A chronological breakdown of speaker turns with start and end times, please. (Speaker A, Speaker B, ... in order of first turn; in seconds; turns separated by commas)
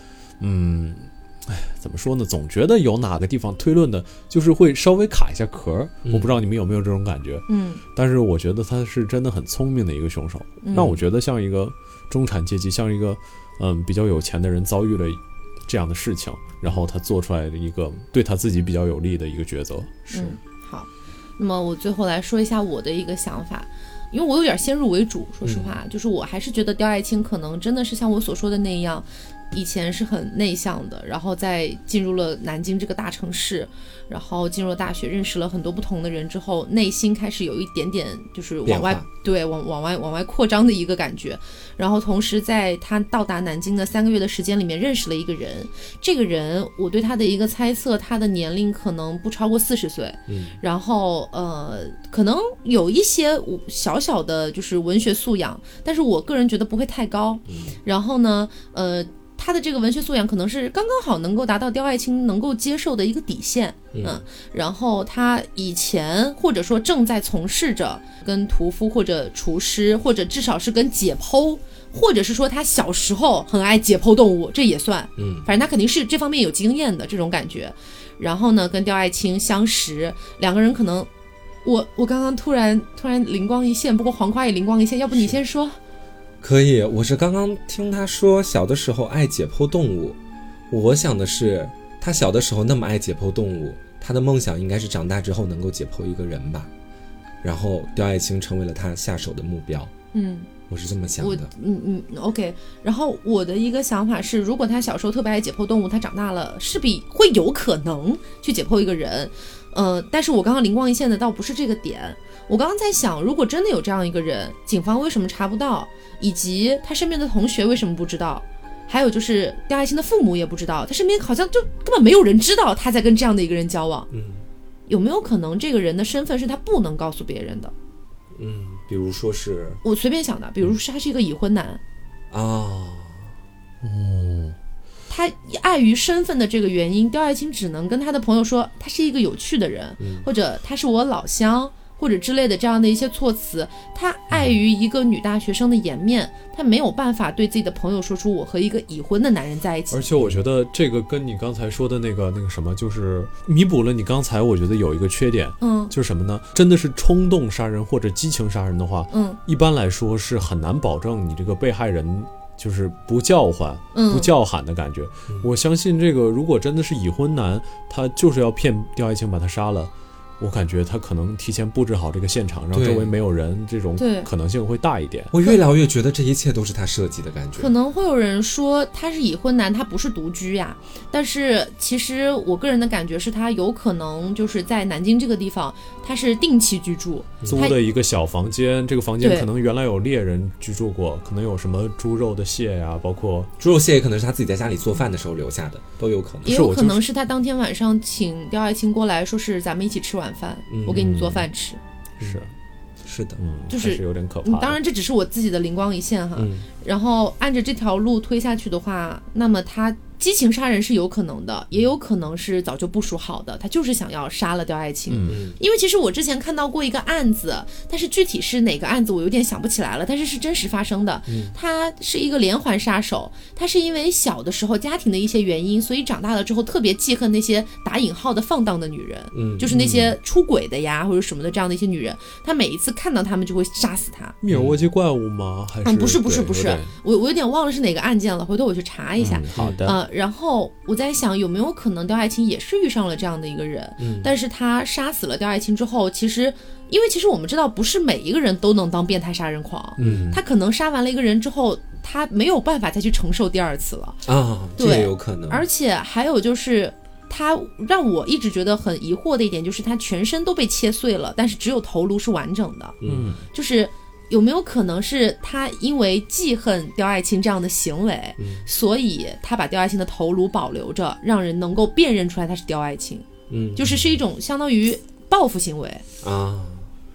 Speaker A: 0.4-20.3, Speaker B: 7.5-7.8, Speaker B: 10.6-11.0, Speaker C: 10.7-11.0, Speaker B: 20.1-81.1, Speaker C: 25.4-25.7, Speaker C: 38.7-39.1, Speaker C: 50.3-50.6, Speaker C: 57.5-57.8, Speaker C: 63.9-64.2, Speaker C: 75.2-75.5, Speaker B: 81.7-85.8, Speaker C: 86.4-90.2, Speaker C: 90.7-96.7, Speaker C: 97.4-99.9, Speaker B: 100.1-100.5, Speaker C: 100.7-101.5, Speaker B: 101.2-124.1, Speaker C: 124.1-124.4, Speaker B: 124.9-127.7, Speaker C: 128.3-129.8, Speaker B: 129.8-131.8, Speaker C: 132.3-133.3, Speaker A: 133.8-134.6, Speaker B: 135.1-150.1, Speaker C: 140.0-140.3, Speaker A: 149.9-175.3, Speaker C: 150.2-150.4, Speaker B: 155.6-155.9, Speaker B: 159.1-159.4, Speaker B: 163.9-164.3, Speaker C: 172.7-173.1, Speaker B: 174.0-174.3, Speaker C: 175.3-177.7, Speaker B: 177.6-187.8, Speaker C: 187.4-187.7, Speaker A: 187.5-193.5, Speaker B: 189.2-189.5, Speaker C: 193.6-196.6, Speaker B: 196.5-201.8, Speaker A: 196.5-197.0, Speaker C: 200.7-201.0, Speaker A: 200.9-201.5, Speaker A: 202.2-202.5, Speaker C: 203.0-203.4, Speaker A: 203.4-204.8, Speaker B: 203.7-234.4, Speaker C: 206.4-206.7, Speaker A: 215.1-215.4, Speaker C: 215.3-215.6, Speaker C: 221.3-221.6, Speaker C: 229.3-229.7, Speaker A: 229.7-230.2, Speaker A: 234.4-236.9, Speaker C: 234.5-234.8, Speaker B: 235.8-254.3, Speaker A: 239.2-240.0, Speaker C: 239.5-239.9, Speaker C: 244.0-244.3, Speaker C: 250.0-250.4, Speaker A: 250.0-250.4, Speaker C: 254.3-255.7, Speaker B: 254.8-276.0, Speaker C: 263.0-263.4, Speaker A: 263.1-263.4, Speaker C: 268.4-268.7, Speaker C: 273.5-273.9, Speaker C: 276.2-276.9